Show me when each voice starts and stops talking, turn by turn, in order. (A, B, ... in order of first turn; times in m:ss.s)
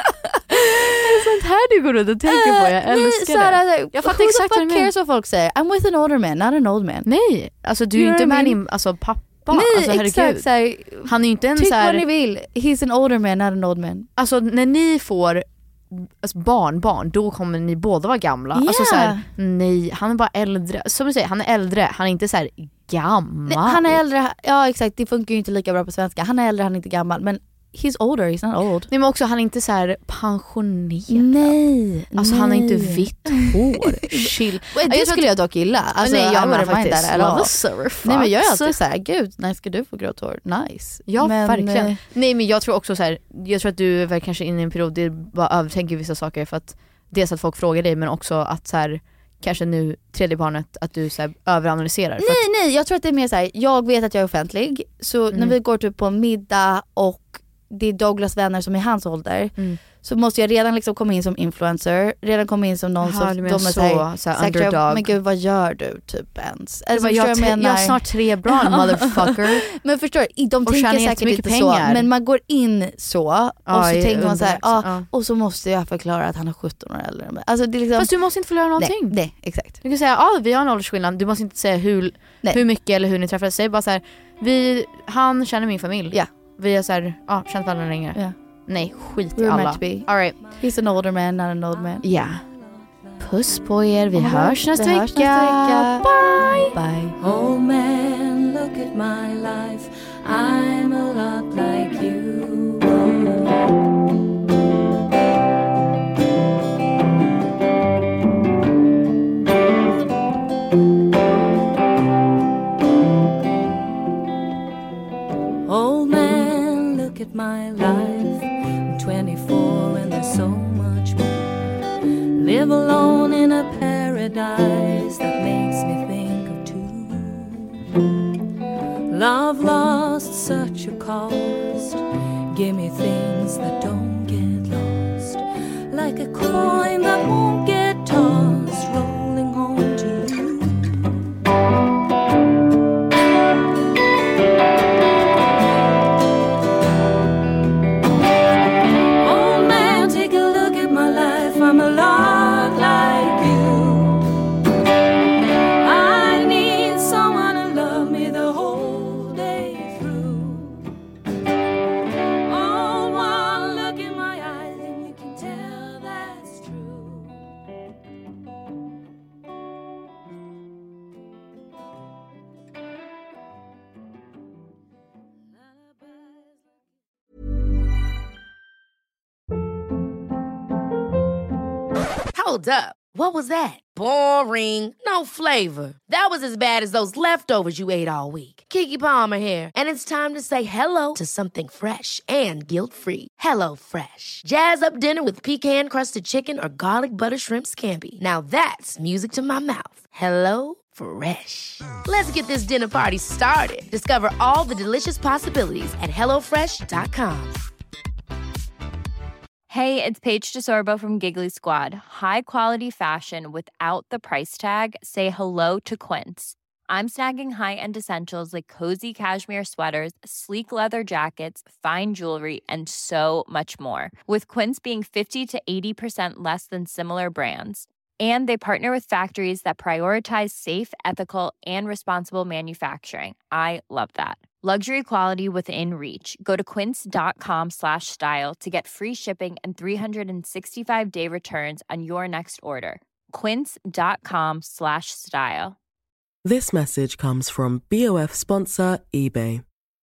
0:00.3-0:04.9 A
0:02.2-0:07.1 B
0:07.0-0:10.5 A
0:07.9-0:08.6 B
0:09.5-0:14.1 B
0:11.0-0:12.0 A
0:14.2-0:24.0 A
0:18.5-0:19.3 B
0:23.5-0:28.9 B
0:28.9-0:31.6 A
0:31.1-0:42.0 B
0:32.1-0:35.3 A
0:36.0-0:38.8 A
0:41.1-0:52.4 A
0:52.2-1:18.1 B
0:55.3-0:55.6 A
1:03.0-1:05.1 A
1:06.9-1:09.6 A
1:10.6-1:12.1 A
1:13.6-1:15.1 A
1:18.0-1:19.2 A
1:18.8-1:19.8 B
1:19.8-1:30.4 A
1:29.3-1:32.1 B
1:31.8-1:33.5 C
1:32.0-1:32.4 A
1:33.2-1:36.8 A
1:34.1-1:36.1 B
1:36.7-1:37.2 B
1:37.2-1:43.5 C
1:55.6-2:01.6 C
2:02.4-2:07.9 C
2:09.1-2:21.0 C
2:29.2-2:34.2 C
2:35.4-2:40.8 C
2:42.5-2:47.3 C
3:02.3-3:27.6 D
3:29.7-4:05.8 E
4:06.4-4:09.6 F